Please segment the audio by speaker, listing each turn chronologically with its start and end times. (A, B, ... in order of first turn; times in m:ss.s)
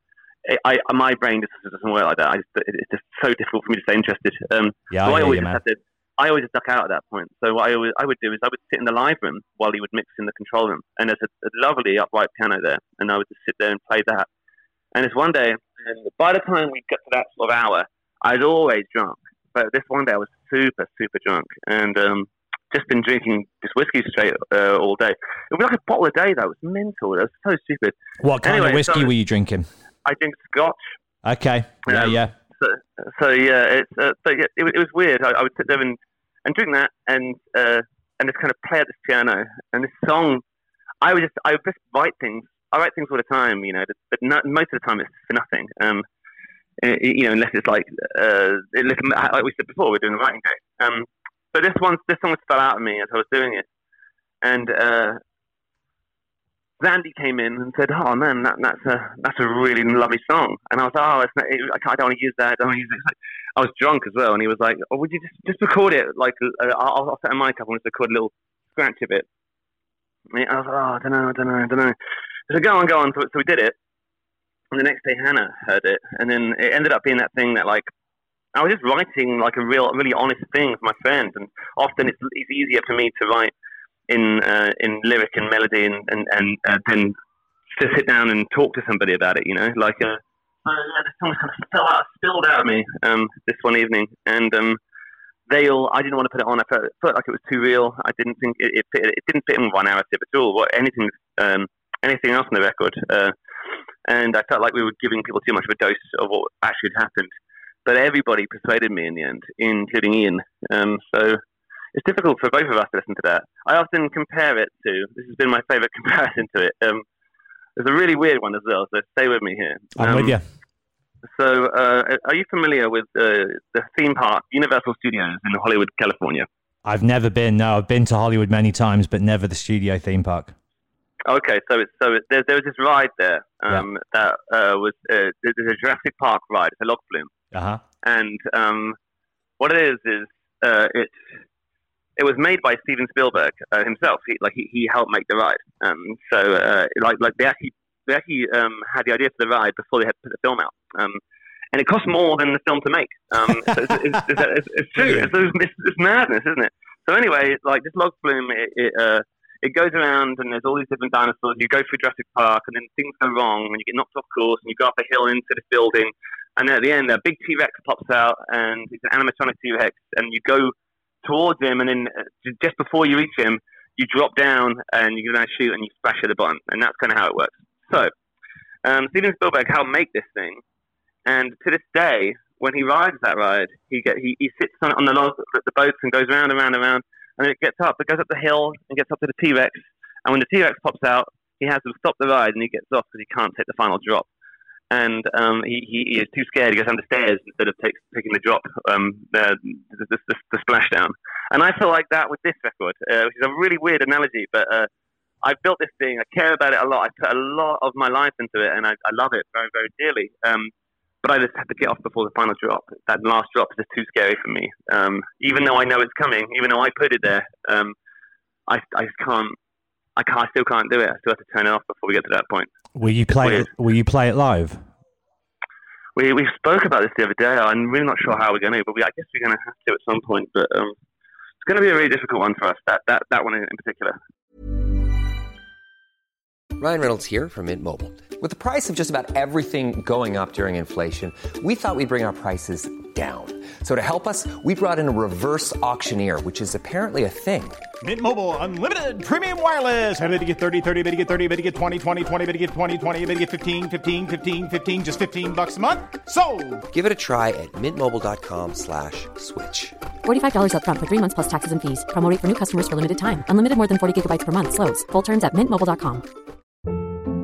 0:00.4-0:14.3 A
0:04.9-0:05.6 B
0:14.9-0:29.1 A
0:28.2-0:29.7 B
0:30.0-0:30.8 A
0:31.2-0:32.3 B
0:31.9-0:40.4 A
0:41.0-0:46.0 A
0:46.8-0:53.6 A
0:54.4-0:55.2 A
0:56.8-1:09.3 A
1:10.3-1:11.9 A
1:12.5-1:13.8 A
1:14.7-1:17.9 A
1:18.6-1:23.5 A
1:24.1-1:27.1 A
1:27.7-1:34.8 A
1:35.5-1:43.3 A
1:44.1-1:47.3 A
1:47.9-1:51.4 A
1:51.9-1:57.0 A
1:57.8-2:00.4 A
2:00.0-2:00.4 B
2:01.3-2:06.5 A
2:06.8-2:10.5 B
2:11.3-2:17.3 A
2:17.5-2:17.8 B
2:18.0-2:19.0 A
2:19.6-2:21.2 A
2:22.2-2:31.2 A
2:31.7-2:50.7 A
2:35.0-2:35.3 B
2:51.2-2:58.1 A
2:58.8-3:00.6 A
3:01.3-3:14.3 A
3:14.9-3:24.9 A
3:25.4-3:30.7 A
3:31.2-3:37.9 A
3:38.7-3:39.6 A
3:40.2-3:42.8 A
3:43.0-3:44.8 B
3:43.3-3:43.7 A
3:46.2-3:50.9 A
3:51.6-3:54.2 A
3:56.8-4:07.8 C
4:08.0-4:16.8 D
4:16.9-4:20.0 C
4:20.2-4:26.2 E